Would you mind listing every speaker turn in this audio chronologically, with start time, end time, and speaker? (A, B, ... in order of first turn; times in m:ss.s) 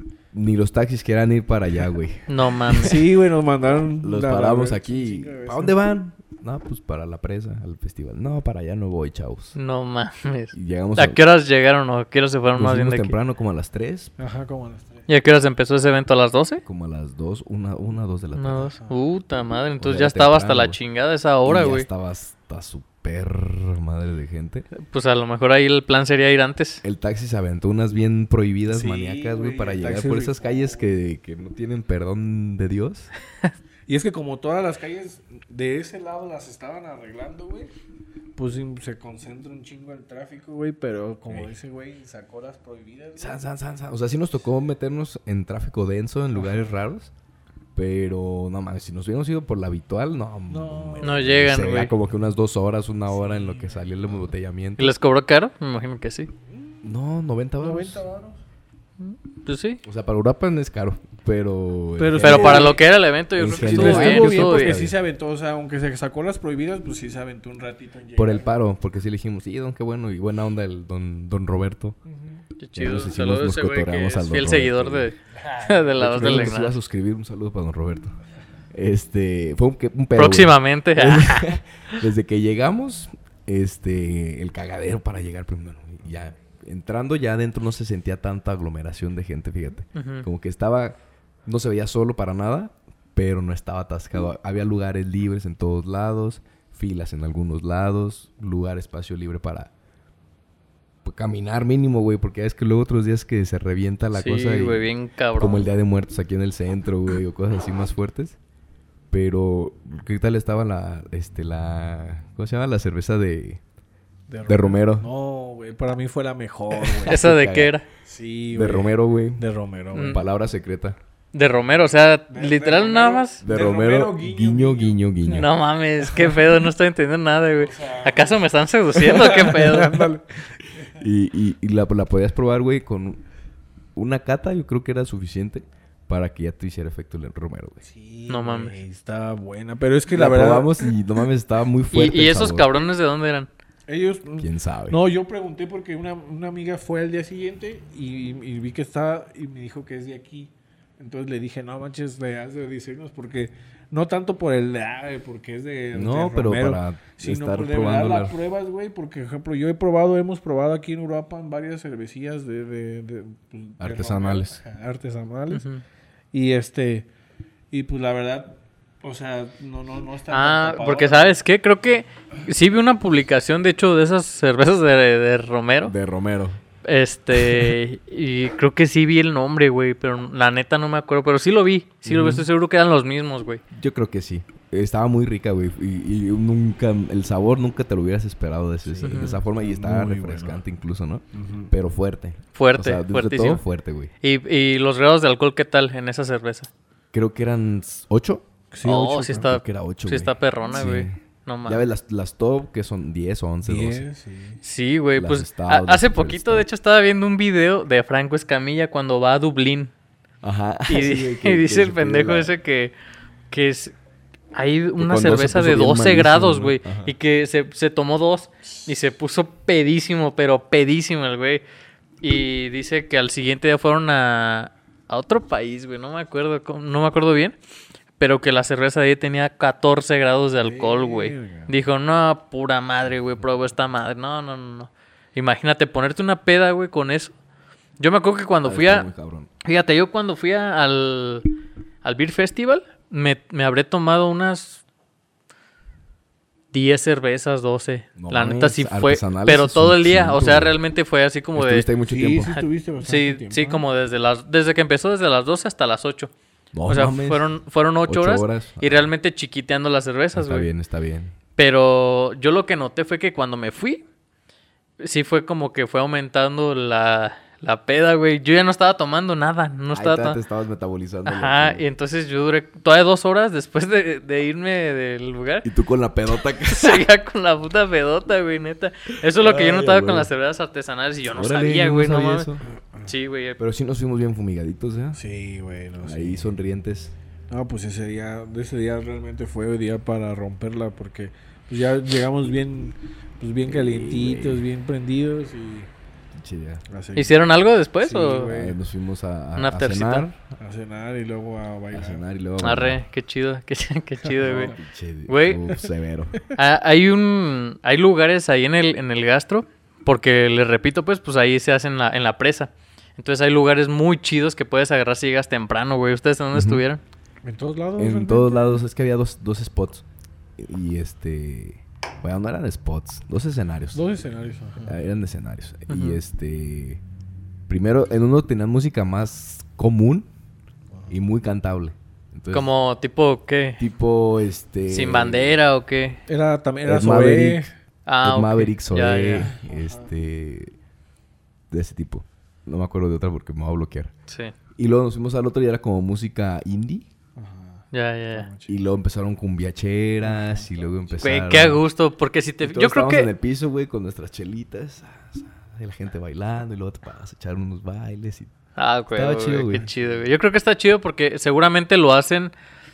0:00.3-0:03.1 A
0:02.3-0:03.0 B
0:02.8-0:05.8 C
0:04.0-0:09.6 A
0:09.6-0:13.1 B
0:10.5-0:11.2 A
0:12.6-0:14.1 A
0:14.2-0:15.1 C
0:15.1-0:16.6 B
0:16.6-0:18.7 A
0:18.4-0:21.9 B
0:19.8-0:20.8 A
0:21.4-0:24.7 A
0:24.8-0:26.8 B
0:26.8-0:33.1 A
0:28.7-0:30.9 C
0:33.9-0:37.7 C
0:38.4-0:43.4 C
0:43.2-0:47.1 A
0:46.4-0:46.7 C
0:47.8-0:54.9 A
0:50.5-0:51.3 C
0:51.0-0:51.9 B
0:53.1-0:54.2 C
0:54.8-0:56.3 B
0:56.8-0:58.0 A
0:57.6-0:58.4 C
0:59.0-0:59.8 B
0:59.8-1:02.8 A
1:02.0-1:02.8 C
1:02.2-1:04.8 B
1:03.4-1:04.9 A
1:03.5-1:08.6 C
1:08.2-1:12.0 A
1:12.1-1:12.4 C
1:12.6-1:16.8 B
1:12.8-1:15.1 A
1:15.5-1:16.5 C
1:16.0-1:18.2 A
1:18.7-1:39.7 A
1:20.2-1:22.0 B
1:30.0-1:30.3 B
1:41.0-1:48.4 A
1:44.1-1:45.7 B
1:49.1-1:53.6 A
1:54.3-1:57.2 C
1:54.5-1:55.1 A
1:56.8-1:57.7 A
1:57.0-1:57.9 B
1:58.0-2:00.2 C
1:58.5-1:59.4 A
1:59.9-2:00.2 B
2:00.0-2:01.0 A
2:01.3-2:03.4 B
2:02.3-2:05.0 C
2:03.4-2:05.5 A
2:05.3-2:10.1 B
2:07.6-2:11.0 C
2:10.8-2:13.2 A
2:14.0-2:17.8 A
2:17.8-2:20.8 C
2:18.3-2:18.8 B
2:20.1-2:22.7 A
2:21.9-2:23.5 B
2:23.9-2:45.6 C
2:24.4-2:25.0 A
2:35.9-2:38.4 A
2:43.8-2:44.6 A
2:45.5-2:45.8 B
2:46.3-2:47.1 C
2:47.7-2:51.4 C
2:50.3-2:55.9 B
2:55.8-2:56.6 A
2:56.8-3:03.6 B
2:57.3-2:57.8 A
3:02.1-3:02.5 A
3:03.7-3:14.1 A
3:08.8-3:10.6 C
3:09.0-3:09.4 B
3:11.3-3:11.7 C
3:12.6-3:13.6 B
3:14.2-3:16.7 B
3:17.1-3:18.4 A
3:18.7-3:19.5 C
3:18.8-3:21.8 B
3:19.3-3:24.0 A
3:23.6-3:24.6 C
3:24.6-3:29.9 B
3:25.2-3:26.7 A
3:30.4-3:32.5 A
3:30.9-3:32.9 B
3:33.5-3:34.0 B
3:34.5-3:41.6 B
3:35.0-3:37.1 A
3:42.2-3:47.6 B
3:48.2-3:57.4 B
3:50.6-3:51.7 C
3:58.0-3:59.1 B
3:58.6-3:59.5 A
3:59.6-4:01.5 B
4:02.0-4:04.8 B
4:06.7-4:11.9 B
4:08.2-4:10.8 A
4:11.6-4:12.6 A
4:12.1-4:13.8 C
4:12.5-4:16.3 B
4:16.7-4:17.5 A
4:16.9-4:20.7 B
4:18.0-4:19.1 A
4:20.4-4:21.4 A
4:21.6-4:24.0 B
4:25.0-4:30.4 B
4:29.9-4:31.8 A
4:31.2-4:35.7 B
4:35.6-4:37.0 A
4:36.6-4:42.5 B
4:39.4-4:40.3 A
4:41.3-4:42.6 A
4:43.1-4:43.6 B
4:43.6-4:45.2 A
4:45.1-4:46.6 C
4:46.0-4:47.1 A
4:47.5-4:55.9 C
4:53.7-4:54.6 A
4:56.4-4:56.8 A
4:56.9-4:57.4 C
4:57.2-4:58.5 B
4:58.0-4:58.8 C
4:58.4-5:00.4 A
4:59.6-5:00.3 B
5:00.6-5:02.2 C
5:01.9-5:03.0 A
5:02.6-5:04.7 B
5:04.4-5:04.8 C
5:04.4-5:06.4 A
5:05.3-5:05.8 B
5:06.5-5:17.0 B
5:16.5-5:16.8 A
5:17.4-5:18.8 C
5:18.0-5:20.0 A
5:20.6-5:24.0 A
5:23.9-5:25.0 C
5:24.8-5:27.0 A
5:25.9-5:26.2 B
5:27.7-5:30.3 A
5:30.9-5:31.2 C
5:31.1-5:32.7 A
5:32.5-5:33.8 B
5:33.8-5:35.6 A
5:34.9-5:36.2 B
5:36.3-5:37.7 C
5:36.8-5:37.6 A
5:38.1-5:39.5 B
5:38.2-5:40.7 A
5:39.5-5:40.1 C
5:41.7-5:44.1 A
5:44.3-5:44.5 B
5:44.8-5:47.1 A
5:47.4-5:48.7 C
5:47.9-5:48.5 B
5:48.7-5:51.8 A
5:50.2-5:51.0 C
5:51.2-5:53.3 B
5:52.6-5:58.5 A
5:58.8-6:02.5 B
5:59.1-5:59.9 A